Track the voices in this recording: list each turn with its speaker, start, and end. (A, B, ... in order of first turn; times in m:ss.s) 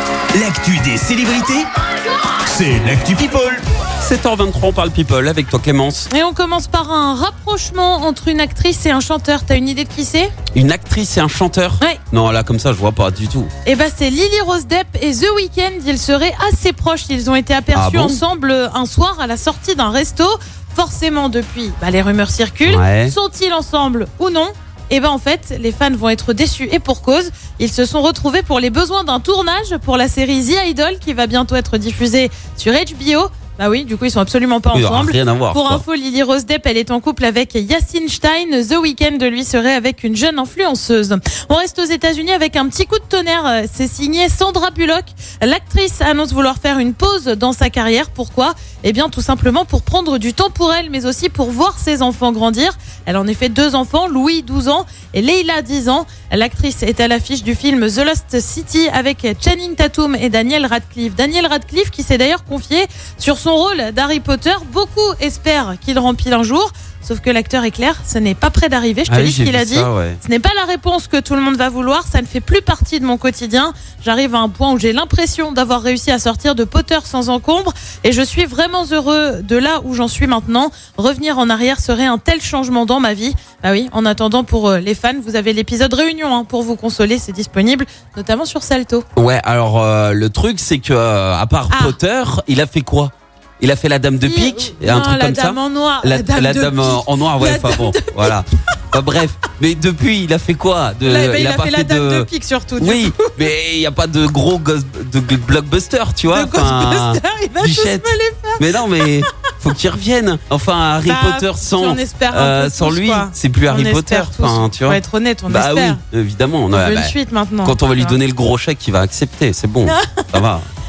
0:00.3-0:01.7 A
0:02.4-0:03.6 A
0:04.0-0:06.1 B
0:06.1-0:10.3 C
0:10.5-0:13.5 B
0:13.6-1:29.1 C
0:17.7-0:18.2 B
0:22.6-0:23.2 B
0:34.7-0:35.8 B
1:09.1-1:10.2 B
1:29.2-2:00.7 B
1:31.7-1:32.0 C
1:34.2-1:38.4 C
1:41.0-1:43.5 C
1:46.3-1:49.3 C
1:51.0-1:56.0 C
1:56.7-1:58.2 C
1:59.8-2:00.4 C